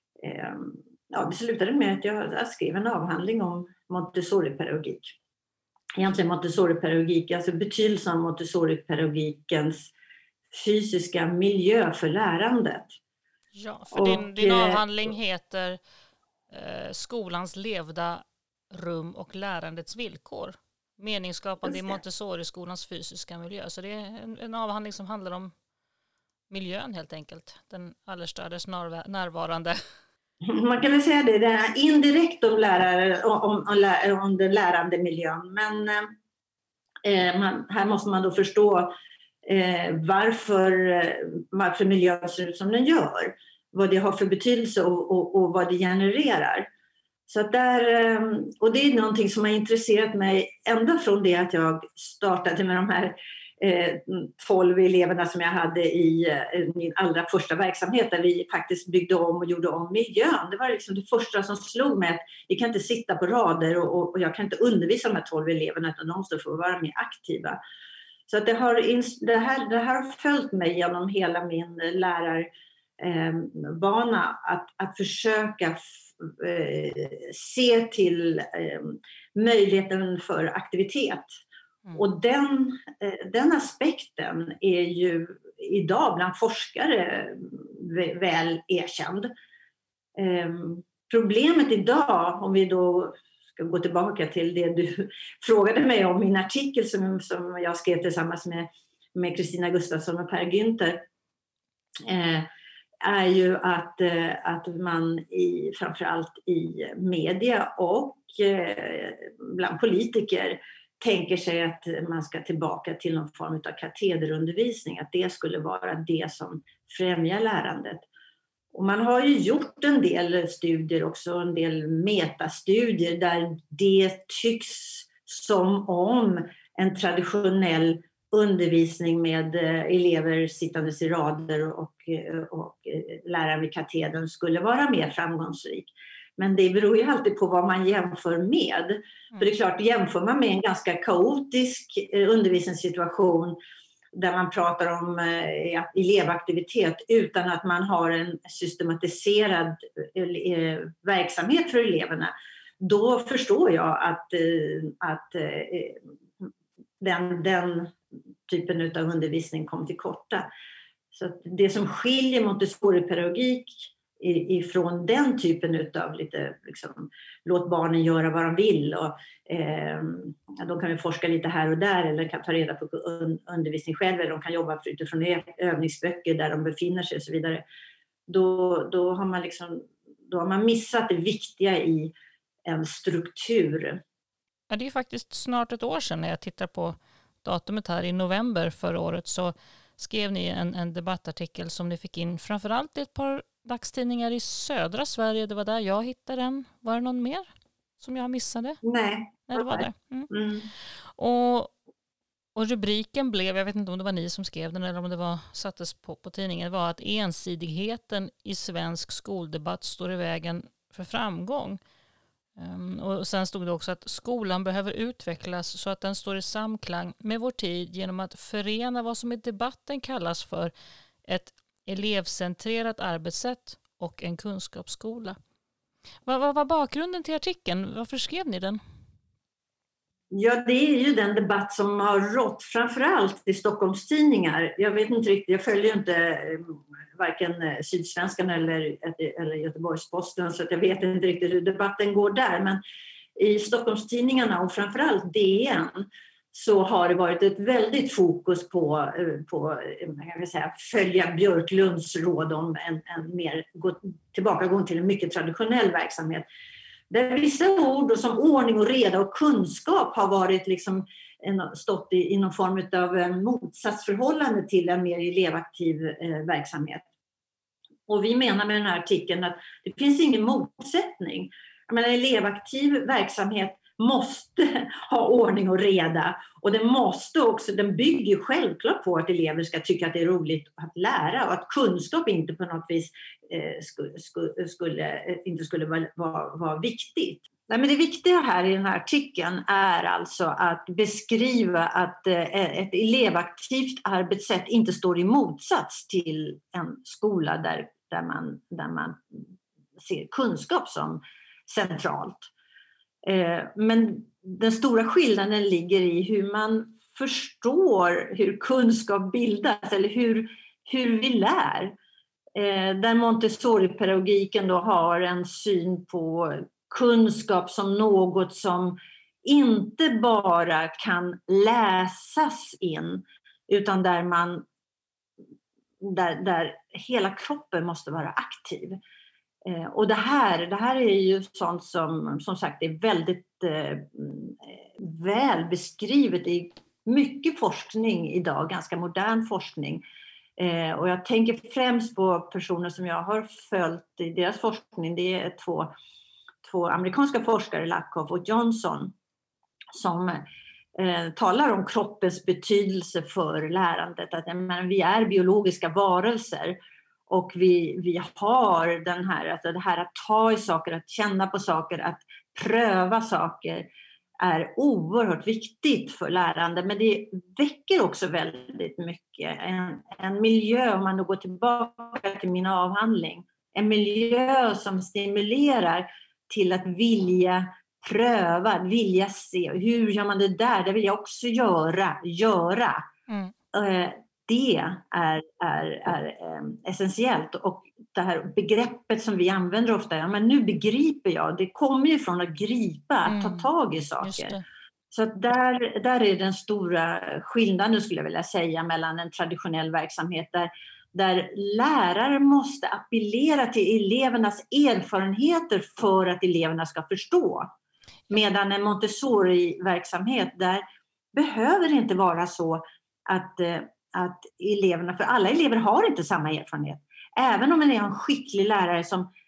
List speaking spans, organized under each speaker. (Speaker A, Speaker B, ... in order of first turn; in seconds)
Speaker A: 0.2-5.2, 6.0-9.9, 10.5-12.9, 13.9-14.8, 21.6-22.0, 30.4-36.1, 37.0-38.9, 39.4-46.7, 47.3-67.6, 68.3-81.3, 82.0-89.3, 90.2-101.1, 102.0-102.5, 103.0-118.1, 118.7-143.6, 144.1-156.4, 157.0-157.9, 158.5-160.5, 161.1-177.6, 178.3-182.1, 182.7-184.0, 198.8-200.7, 230.3-242.8, 243.4-256.4, 257.1-267.1, 268.1-302.5, 303.2-312.0, 312.6-324.7, 326.0-329.0, 329.6-340.0, 340.6-345.9, 346.6-349.1, 349.9-350.4, 351.0-363.9, 364.4-383.1, 383.7-394.6, 395.1-407.7, 408.3-419.3
Speaker B: 13.6-15.8, 16.5-25.5, 26.5-29.8, 184.7-197.5, 198.0-198.8, 199.5-200.3, 201.2-201.7, 202.6-211.8, 212.6-220.7, 221.2-225.4, 226.2-228.8, 383.3-383.5, 393.2-393.7, 394.2-394.6